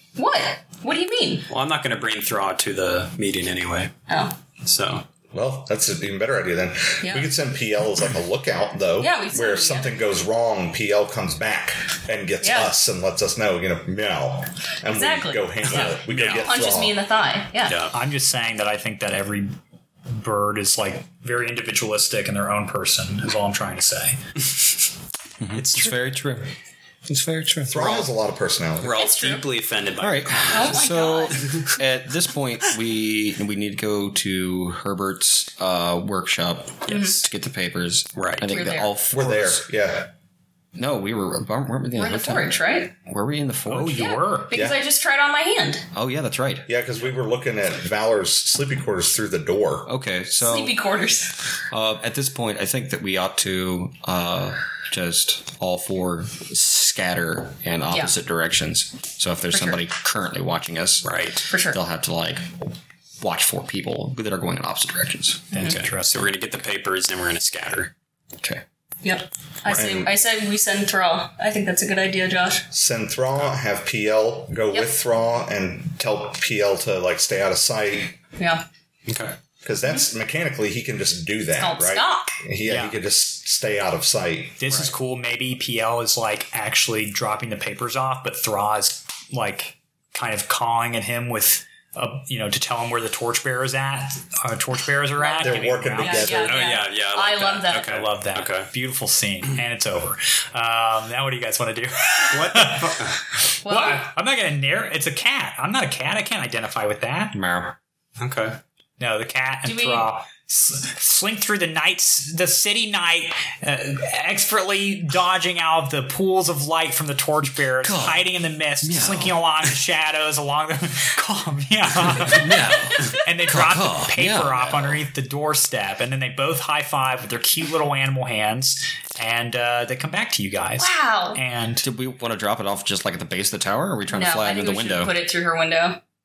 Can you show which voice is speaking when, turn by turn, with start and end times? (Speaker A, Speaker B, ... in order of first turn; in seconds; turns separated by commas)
Speaker A: 0.1-1.5, Speaker B: 1.5-3.9, Speaker A: 4.1-4.4, Speaker B: 4.5-5.0, Speaker C: 5.3-17.0, Speaker A: 7.0-7.3, Speaker A: 9.0-10.0, Speaker A: 12.4-12.7, Speaker A: 14.8-17.8, Speaker B: 15.8-16.5, Speaker B: 17.6-17.9, Speaker D: 17.9-19.5, Speaker D: 20.1-24.2, Speaker E: 25.4-26.5, Speaker B: 25.5-25.9, Speaker E: 27.1-28.1, Speaker C: 27.7-29.0, Speaker B: 28.8-31.7, Speaker A: 28.9-29.5, Speaker E: 30.0-39.6, Speaker A: 30.5-31.6, Speaker A: 36.9-37.2, Speaker B: 36.9-37.2, Speaker B: 38.1-38.5, Speaker A: 38.5-38.9, Speaker C: 39.1-40.1, Speaker E: 40.8-44.2, Speaker A: 41.9-42.9, Speaker D: 43.7-44.6, Speaker A: 44.0-45.9, Speaker C: 44.5-44.8, Speaker E: 45.9-46.7, Speaker C: 46.7-49.9, Speaker E: 49.9-50.8, Speaker A: 50.4-51.5, Speaker E: 51.7-65.5, Speaker A: 59.5-59.8, Speaker B: 61.0-61.5, Speaker A: 61.5-61.8, Speaker D: 65.5-66.3, Speaker A: 65.5-65.8, Speaker B: 65.5-67.9, Speaker A: 69.0-72.6, Speaker B: 69.7-70.0, Speaker C: 72.7-78.2, Speaker A: 78.4-78.7, Speaker B: 79.1-79.3, Speaker C: 79.6-84.6, Speaker A: 81.6-82.3, Speaker D: 82.7-83.0, Speaker D: 84.6-96.5, Speaker A: 95.2-98.0, Speaker C: 95.4-96.7, Speaker B: 96.3-98.7, Speaker D: 97.8-107.4, Speaker B: 102.3-103.2, Speaker A: 103.6-104.0, Speaker E: 107.3-107.8, Speaker B: 108.2-108.6, Speaker D: 109.0-122.6, Speaker A: 109.6-110.1, Speaker E: 117.8-118.3, Speaker E: 118.8-119.4, Speaker E: 122.2-125.0, Speaker D: 123.1-131.9, Speaker A: 130.8-131.4, Speaker E: 131.8-135.1, Speaker A: 134.1-136.0